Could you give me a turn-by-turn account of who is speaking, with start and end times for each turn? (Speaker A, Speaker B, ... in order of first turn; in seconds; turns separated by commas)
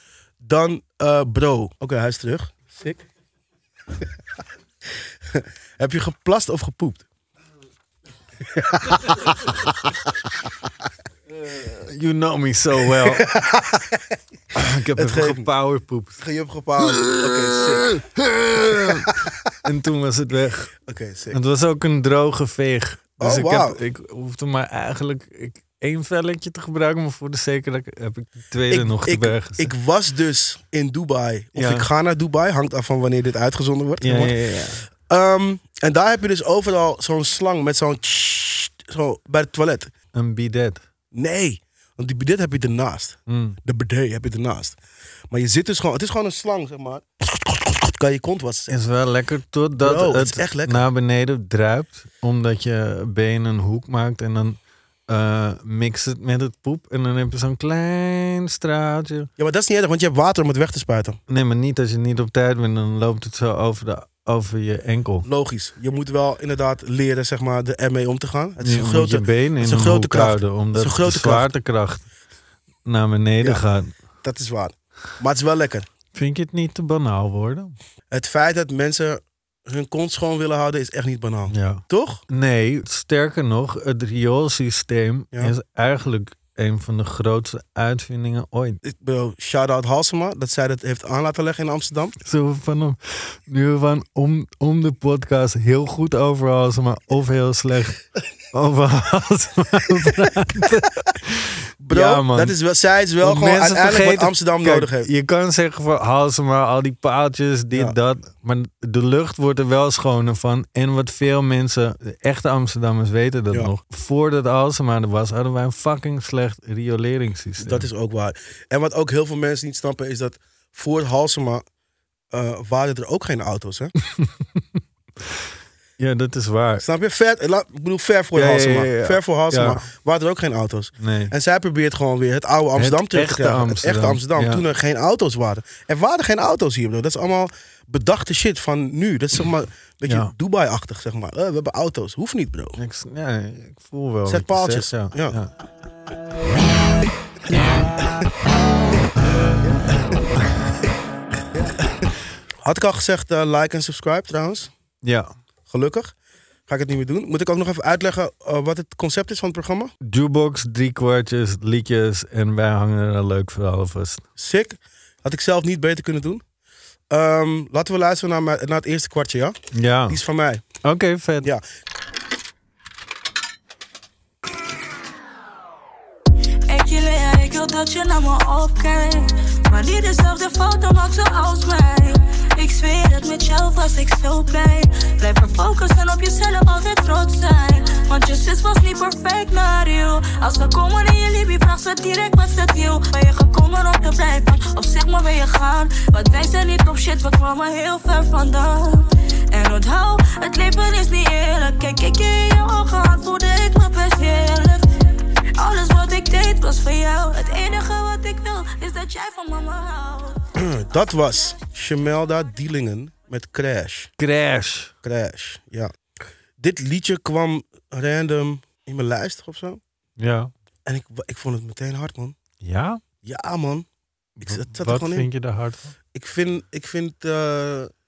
Speaker A: 0.4-3.0, Speaker A: 5.2-7.0, Speaker A: 8.4-10.1, Speaker B: 11.3-13.3, Speaker A: 13.0-14.0, Speaker B: 14.5-16.2, Speaker A: 14.9-15.5, Speaker A: 16.2-18.1, Speaker B: 18.4-19.1, Speaker A: 18.7-19.3, Speaker B: 19.6-20.7, Speaker A: 20.9-21.4, Speaker B: 21.3-29.7, Speaker A: 23.2-23.8, Speaker A: 28.7-34.3, Speaker B: 31.6-31.9, Speaker B: 34.0-34.9, Speaker A: 35.1-39.9, Speaker B: 40.1-40.8, Speaker A: 41.1-44.8, Speaker B: 43.3-43.6, Speaker A: 45.3-48.7, Speaker B: 48.7-54.6, Speaker A: 49.8-50.9, Speaker B: 55.1-59.3, Speaker A: 59.4-61.2, Speaker B: 61.3-65.3, Speaker A: 65.2-71.5, Speaker B: 68.6-72.0, Speaker B: 72.8-73.9, Speaker A: 74.2-75.9, Speaker B: 76.1-77.8, Speaker A: 78.1-82.2, Speaker B: 81.5-88.8, Speaker A: 88.8-92.2, Speaker B: 92.2-102.5, Speaker A: 101.8-105.1, Speaker B: 103.2-117.9, Speaker A: 117.6-121.6, Speaker A: 122.3-123.9, Speaker B: 124.2-124.6, Speaker B: 126.0-126.8, Speaker A: 126.8-142.8, Speaker B: 128.3-129.8, Speaker B: 131.0-131.3, Speaker B: 132.8-134.6, Speaker B: 140.1-140.3, Speaker B: 142.8-145.5, Speaker A: 144.2-145.4, Speaker A: 149.6-150.2, Speaker A: 152.6-154.7, Speaker B: 155.0-155.3, Speaker A: 155.7-156.1, Speaker A: 156.7-159.9, Speaker B: 160.0-164.2, Speaker A: 164.4-166.4, Speaker A: 167.1-169.6, Speaker B: 169.7-170.2, Speaker A: 170.1-170.6, Speaker B: 170.8-171.5, Speaker C: 176.7-204.8, Speaker C: 205.6-210.4, Speaker A: 210.6-214.1, Speaker B: 214.2-214.9, Speaker A: 215.0-215.9, Speaker A: 216.6-219.8, Speaker B: 220.2-220.5, Speaker A: 220.8-222.3, Speaker B: 222.6-223.0, Speaker A: 223.2-223.8, Speaker B: 224.4-225.9, Speaker A: 224.4-225.3, Speaker A: 226.1-227.9